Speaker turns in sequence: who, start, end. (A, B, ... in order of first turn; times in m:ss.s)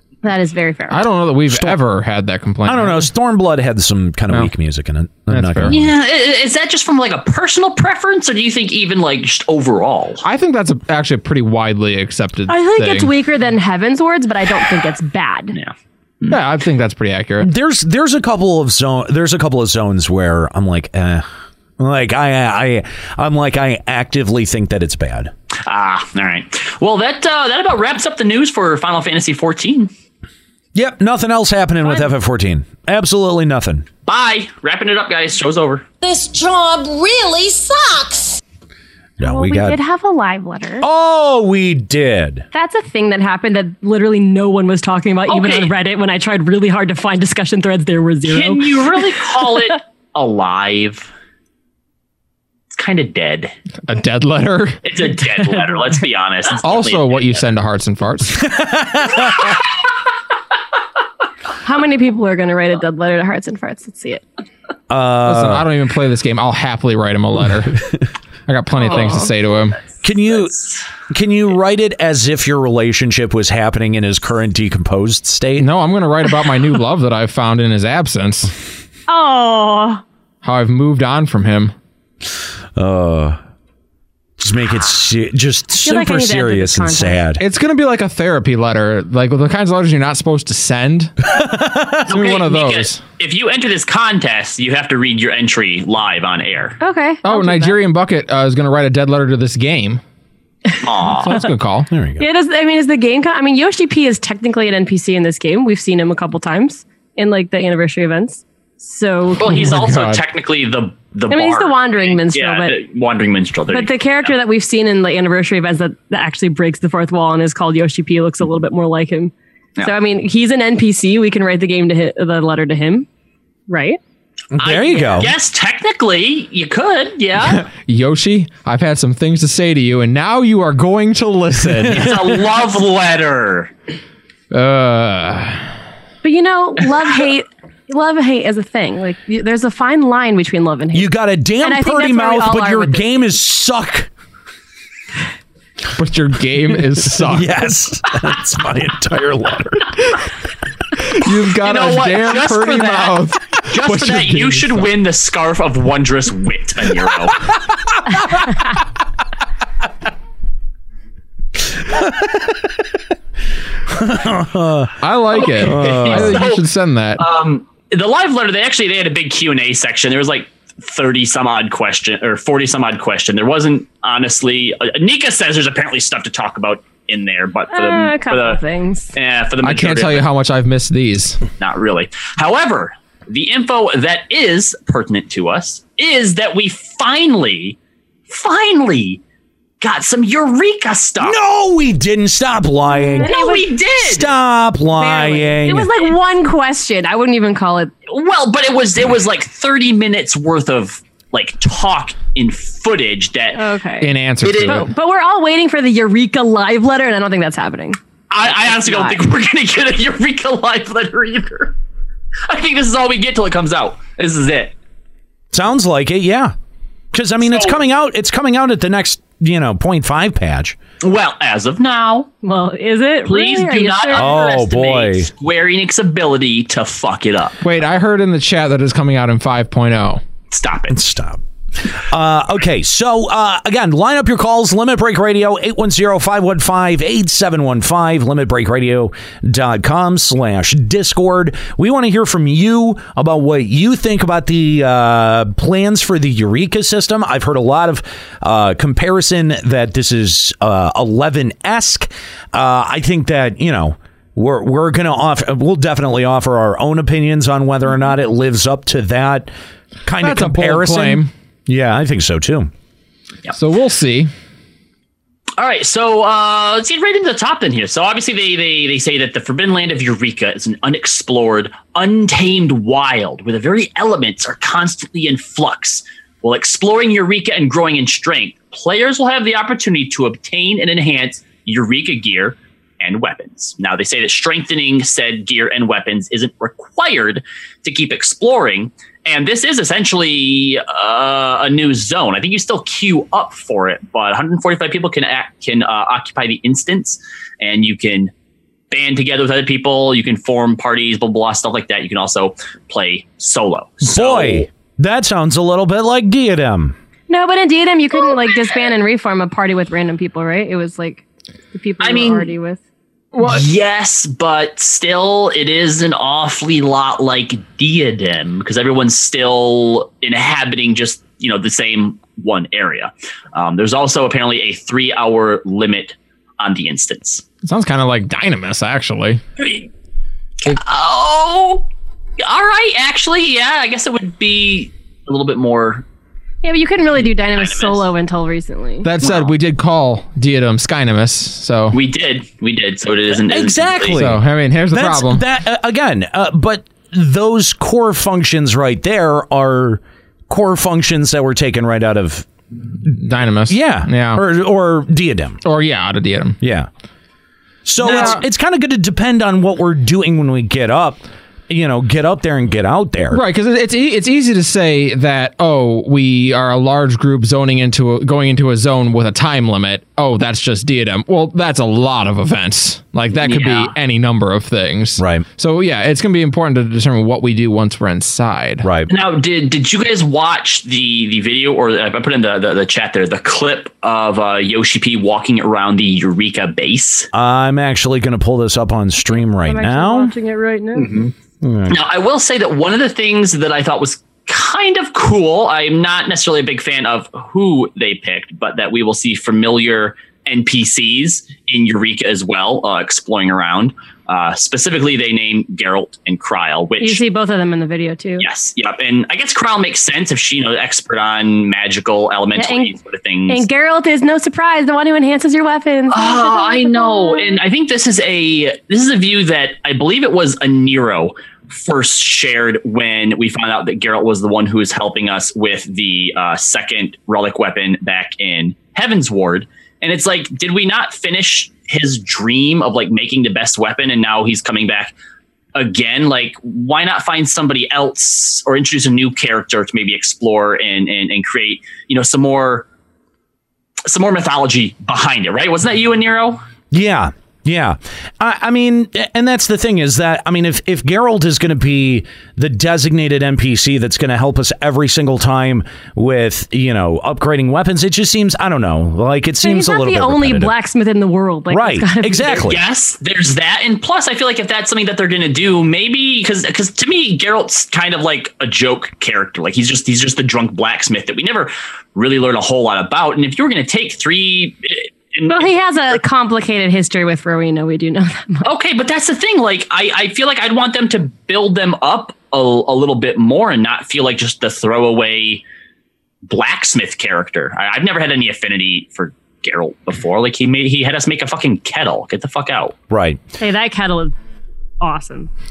0:00.2-0:01.0 A
0:00.9-0:03.1 B
0:01.5-0:01.8 C
0:02.6-0:05.9 C
0:05.3-0:05.8 B
0:05.7-0:10.2 D
0:10.2-0:13.1 B
0:12.5-0:15.6 A
0:15.5-0:16.4 D
0:16.3-0:17.5 B
0:17.4-0:21.3 C
0:21.8-0:25.3 C
0:25.6-0:29.9 D
0:30.7-0:33.9 C
0:31.8-0:32.1 A
0:34.1-0:35.8 D
0:36.0-0:38.4 E
0:39.2-0:39.8 C
0:39.2-0:40.8 A
0:40.8-0:42.4 C
0:42.5-0:48.8 A
0:45.3-0:45.7 D
0:48.2-0:51.1 D
0:52.7-0:53.5 D
0:53.9-0:54.8 B
0:54.8-0:57.4 D
0:56.6-0:58.5 B
0:58.4-0:59.5 C
1:01.6-1:04.2 A
1:04.9-1:05.7 C
1:05.2-1:07.8 B
1:08.5-1:09.8 B
1:08.8-1:09.3 A
1:10.0-1:10.6 C
1:10.2-1:10.8 D
1:11.1-1:15.7 C
1:15.6-1:18.5 B
1:19.1-1:20.0 A
1:20.4-1:21.7 B
1:22.8-1:23.4 C
1:24.4-1:27.4 C
1:25.8-1:27.2 A
1:27.4-1:31.1 B
1:31.3-1:32.1 C
1:32.1-1:33.0 B
1:32.1-1:36.8 D
1:36.8-1:37.8 A
1:37.2-1:40.0 B
1:40.8-1:41.3 D
1:41.2-1:41.9 B
1:41.9-1:42.3 C
1:42.2-1:49.6 A
1:49.4-1:54.3 D
1:49.4-1:50.2 B
1:51.3-1:52.8 A
1:53.7-2:03.1 A
2:03.7-2:04.0 A
2:04.5-2:05.3 C
2:04.6-2:07.6 D
2:07.4-2:12.1 B
2:11.9-2:12.3 C
2:11.9-2:13.7 D
2:14.5-2:15.7 B
2:16.2-2:23.1 A
2:20.9-2:24.1 C
2:26.0-2:27.6 B
2:27.1-2:30.2 C
2:31.0-2:34.9 B
2:31.6-2:37.5 D
2:41.8-2:42.7 C
2:43.9-2:44.9 C
2:45.0-2:47.2 B
2:45.4-2:46.7 D
2:45.6-2:46.4 C
2:47.2-2:58.6 D
2:57.7-2:59.1 A
2:59.1-3:00.3 D
2:59.6-3:01.4 B
3:01.6-3:07.8 D
3:08.3-3:09.2 D
3:09.8-3:11.4 D
3:11.2-3:13.3 C
3:13.1-3:13.6 A
3:13.2-3:14.3 D
3:14.0-3:16.0 C
3:14.9-3:17.9 A
3:18.1-3:23.6 D
3:23.6-3:24.1 A
3:24.0-3:24.9 B
3:24.4-3:24.8 D
3:24.7-3:28.0 A
3:28.3-3:31.7 D
3:28.8-3:29.2 A
3:32.5-3:34.7 D
3:35.5-3:36.5 C
3:37.1-3:40.8 C
3:37.4-3:37.8 D
3:41.0-3:42.3 D
3:42.4-3:44.3 A
3:43.3-3:47.6 D
3:44.1-3:45.3 C
3:47.6-3:50.2 B
3:50.5-3:51.0 D
3:50.9-3:51.4 C
3:52.0-4:19.5 C
4:20.0-4:22.7 C
4:20.2-4:21.3 B
4:23.5-4:24.3 B
4:25.6-4:58.3 D
4:58.9-5:04.7 D
5:04.0-5:07.0 C
5:07.3-5:12.8 A
5:12.0-5:12.5 D
5:13.3-5:13.6 B
5:13.4-5:27.4 D
5:27.6-5:29.4 B
5:29.6-5:29.9 D
5:30.6-5:31.8 D
5:32.4-5:36.0 D
5:36.6-5:39.1 A
5:37.5-5:38.1 D
5:39.0-5:42.0 B
5:39.2-5:39.5 D
5:41.9-5:44.3 D
5:43.5-5:52.5 C
5:44.1-5:45.4 B
5:53.1-5:54.4 B
5:53.7-5:55.6 C
5:55.6-5:56.6 B
5:56.6-5:56.9 C
5:57.8-6:03.4 C
5:58.0-5:58.4 B
5:58.0-5:58.4 D
6:03.3-6:18.9 B
6:13.4-6:13.9 D
6:15.2-6:15.4 C
6:18.8-6:19.1 C
6:19.1-6:27.3 D
6:27.3-6:30.3 C
6:29.4-6:31.2 A
6:31.0-6:31.3 D
6:31.6-6:32.0 C
6:31.9-6:47.2 D
6:47.0-6:48.5 A
6:48.4-6:53.6 D
6:52.6-6:52.9 A
6:53.5-6:57.6 A
6:56.1-7:15.1 D
7:15.7-7:22.9 D
7:24.0-7:26.6 D
7:26.9-7:40.7 C
7:39.6-7:42.6 A
7:41.7-7:42.8 C
7:42.5-7:55.7 D
7:55.5-7:58.6 A
7:58.6-8:05.6 D
8:06.5-8:12.9 D
8:13.1-8:13.4 C
8:13.6-8:14.3 A
8:15.0-8:15.5 A